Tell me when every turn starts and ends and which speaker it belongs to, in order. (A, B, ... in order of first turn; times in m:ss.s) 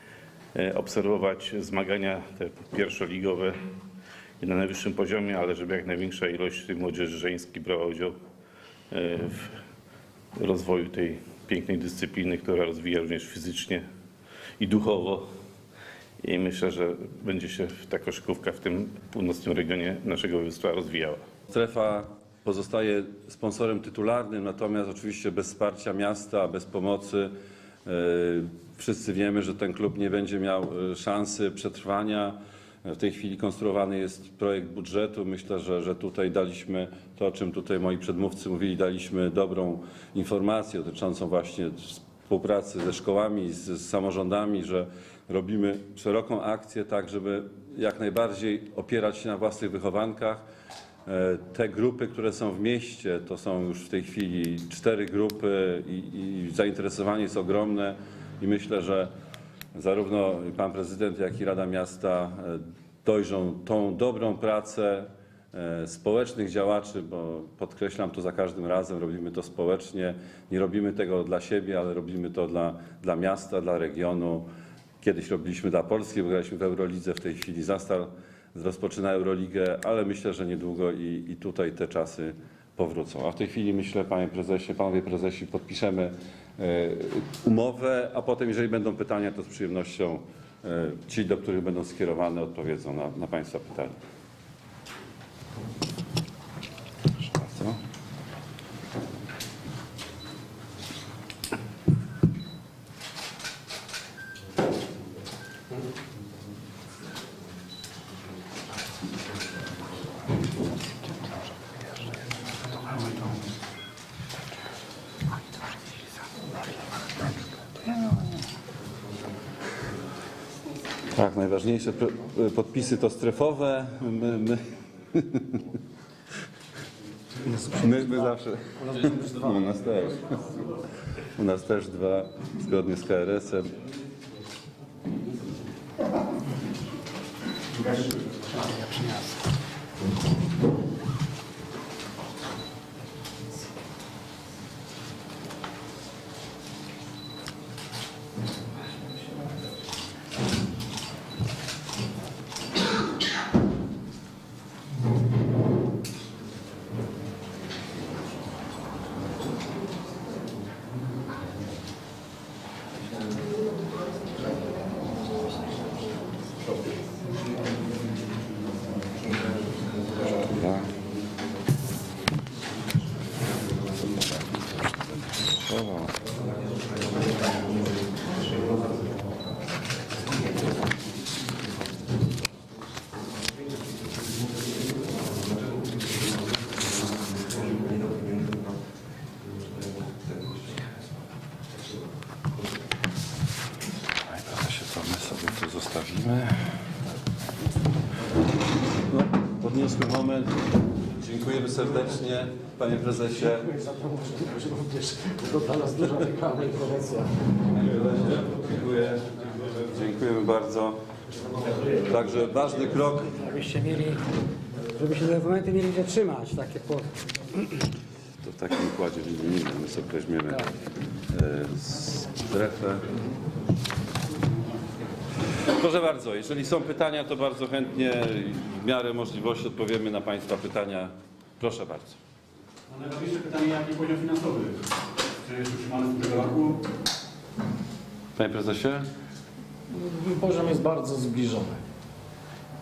0:00.6-0:03.6 A
0:04.4-0:08.1 A
0:08.9-0:09.6 A
0:10.4-0:13.8 A
0:14.6-0:15.2 A
0:16.2-0:21.2 A
0:21.5-0:27.3 B
0:27.9-0:50.4 B
0:51.1-0:59.1 B
0:59.8-1:14.5 B
1:15.0-1:34.0 B
1:37.2-1:37.8 B
2:01.2-2:05.7 B
2:07.6-2:10.5 B
2:11.2-2:13.7 B
2:18.0-2:19.2 C
2:18.8-2:19.4 D
2:50.3-2:51.0 B
2:55.6-2:56.2 B
3:14.3-3:16.7 B
3:19.1-3:20.6 B
3:21.1-3:23.7 B
3:23.4-3:27.3 E
3:27.8-3:31.0 B
3:32.0-3:33.4 B
3:33.5-3:34.2 D
3:35.0-3:37.1 D
3:38.4-3:40.7 B
3:41.3-3:43.1 B
3:45.7-3:52.2 B
3:52.9-3:56.8 C
3:58.4-3:59.1 B
3:59.9-4:01.8 E